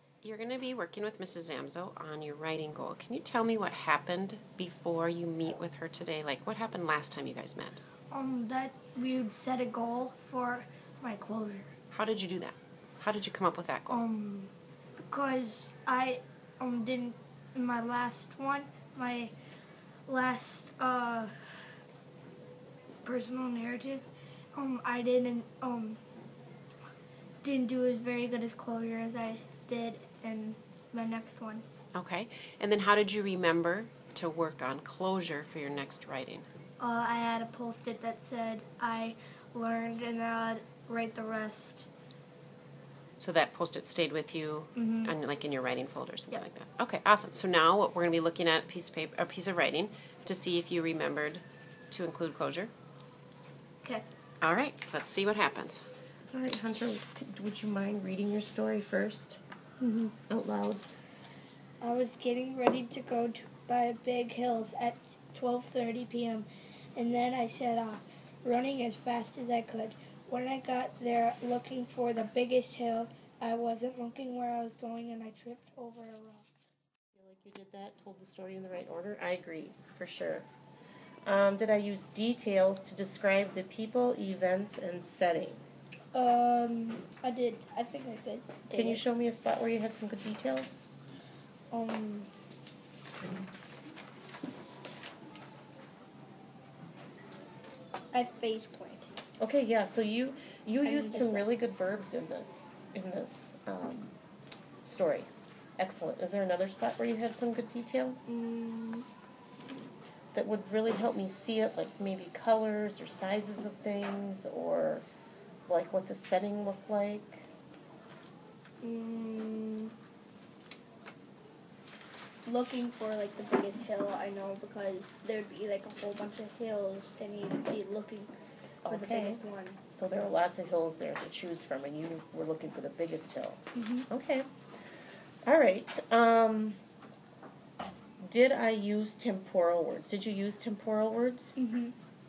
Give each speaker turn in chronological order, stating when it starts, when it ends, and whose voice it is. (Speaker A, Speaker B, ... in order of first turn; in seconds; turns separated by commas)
Speaker A: 0.2-7.8, Speaker B: 8.1-11.7, Speaker A: 11.9-14.0, Speaker B: 13.9-14.5, Speaker B: 15.1-19.3, Speaker B: 20.1-21.6, Speaker B: 23.0-26.0, Speaker B: 27.4-31.6, Speaker A: 31.9-36.5, Speaker B: 36.8-41.9, Speaker A: 43.2-52.7, Speaker B: 44.8-45.1, Speaker A: 54.4-55.8, Speaker C: 56.3-59.4, Speaker B: 59.8-60.1, Speaker C: 60.1-61.0, Speaker B: 61.8-76.5, Speaker C: 77.2-80.5, Speaker C: 81.2-85.6, Speaker B: 86.1-89.0, Speaker C: 88.7-90.8, Speaker B: 91.7-92.3, Speaker B: 98.1-99.1, Speaker C: 99.4-104.2, Speaker B: 100.8-101.5, Speaker C: 104.8-108.3, Speaker B: 108.3-109.0, Speaker C: 110.3-115.0, Speaker C: 115.7-117.5, Speaker B: 118.8-119.9, Speaker B: 122.5-128.3, Speaker B: 128.8-129.8, Speaker C: 128.8-134.5, Speaker B: 133.7-134.1, Speaker C: 135.5-136.8, Speaker C: 138.2-141.6, Speaker B: 141.6-141.9